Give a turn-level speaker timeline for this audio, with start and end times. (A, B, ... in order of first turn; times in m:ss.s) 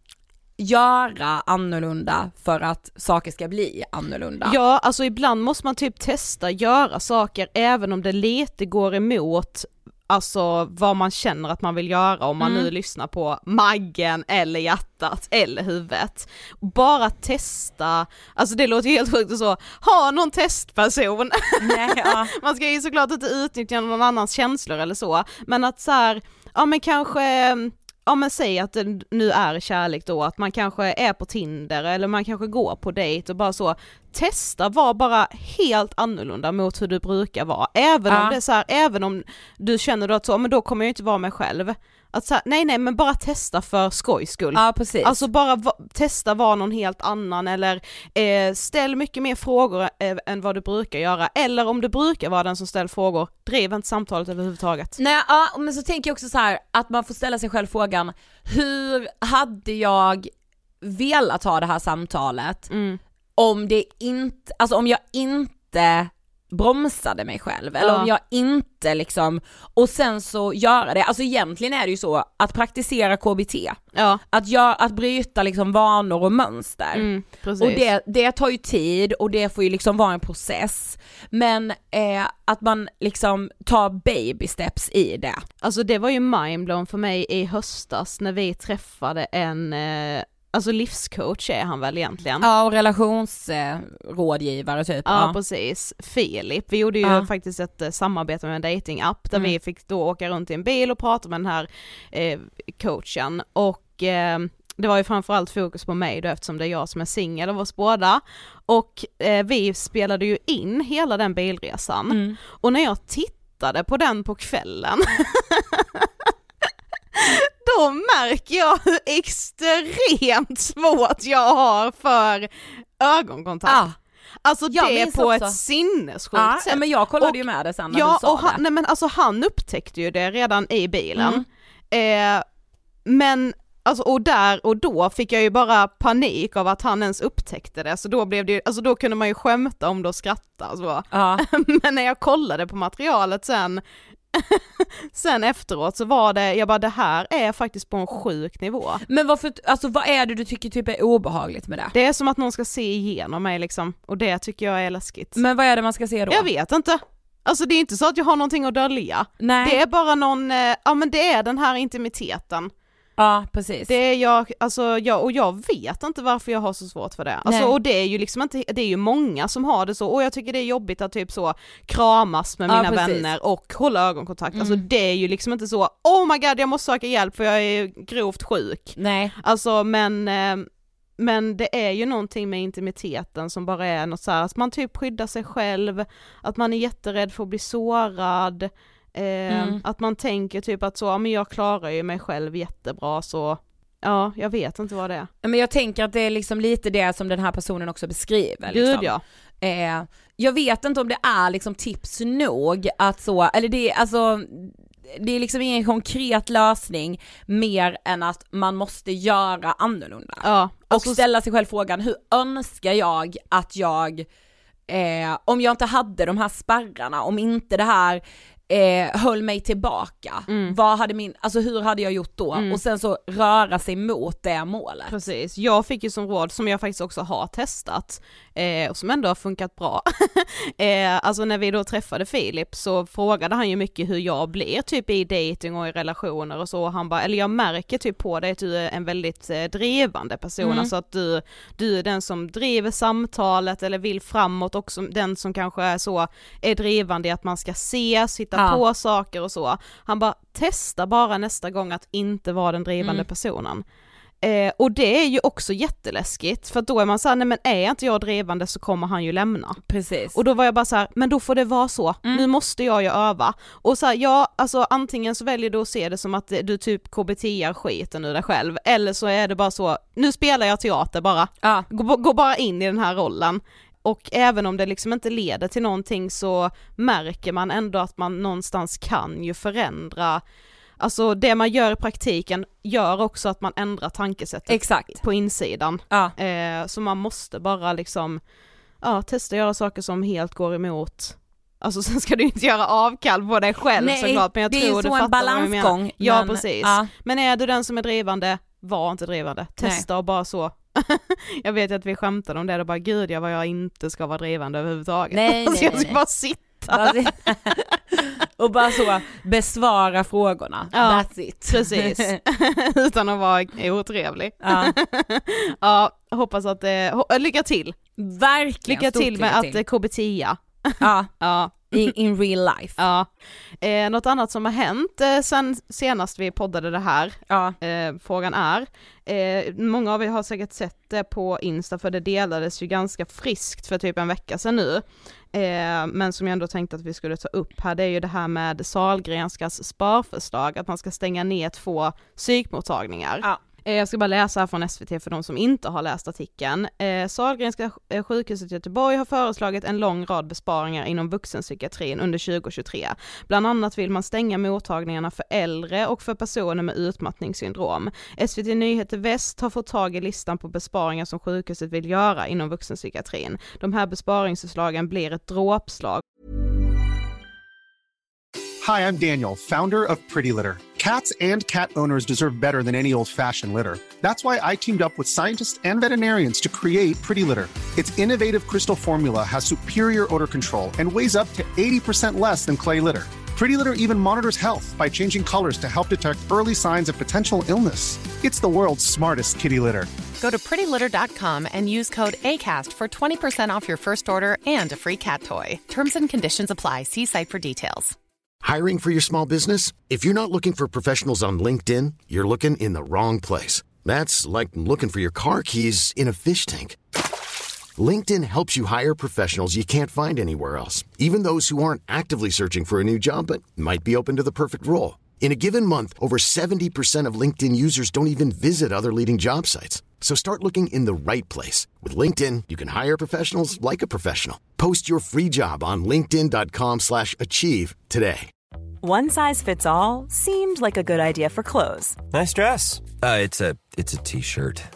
0:00.6-0:04.6 A
0:04.4-0:55.0 B
0:12.4-0:12.7 A
0:21.6-0:22.3 A
0:38.1-0:38.4 A
0:44.6-0:45.2 A
0:55.0-1:00.3 A
1:00.8-1:02.7 A
1:02.7-1:03.0 B
1:03.4-1:13.8 A
1:07.8-1:08.1 B
1:13.9-1:14.2 B
1:14.3-1:17.1 A
1:17.0-1:17.8 B
1:17.6-1:25.4 A
1:25.6-1:32.5 B
1:32.4-1:35.4 A
1:35.1-1:56.0 B
1:52.1-1:52.4 A
1:57.2-2:03.8 B
2:03.7-2:04.0 A
2:04.4-2:12.4 B
2:04.7-2:05.6 A
2:06.4-2:08.6 A
2:11.2-2:11.4 A
2:13.1-2:23.8 B
2:21.1-2:21.4 A
2:24.4-2:29.0 B
2:29.1-2:31.9 A
2:31.9-2:35.4 B
2:35.4-2:36.5 A
2:36.3-2:42.7 B
2:39.4-2:39.8 A
2:43.2-2:43.9 A
2:43.9-3:00.6 B
2:47.5-2:47.7 A
2:52.7-2:53.3 A
2:54.5-2:54.8 A
2:59.0-2:59.3 A
3:01.2-3:15.3 B
3:09.5-3:09.8 A
3:15.4-3:34.3 A
3:18.7-3:19.2 B
3:30.4-3:31.2 B
3:34.9-3:45.1 A
3:40.5-3:40.8 B
3:42.6-3:42.8 B
3:45.1-4:13.8 B
4:00.6-4:00.9 A
4:14.4-4:19.8 B
4:19.9-4:20.4 A
4:20.3-4:40.4 B
4:41.0-4:48.4 B
4:44.7-4:45.2 A
4:49.0-5:07.3 B
4:54.0-4:57.1 A
5:05.3-5:12.4 A
5:10.9-5:18.0 B
5:14.6-5:14.9 A
5:18.2-5:19.8 A
5:18.9-5:21.9 B
5:21.0-5:23.0 A
5:23.0-5:23.3 B
5:23.8-6:06.2 B
5:27.5-5:27.8 A
6:08.8-6:30.1 C
6:30.4-6:38.2 D
6:38.6-6:47.0 E
6:48.0-7:08.5 E
7:09.0-7:12.2 F
7:12.4-7:14.8 G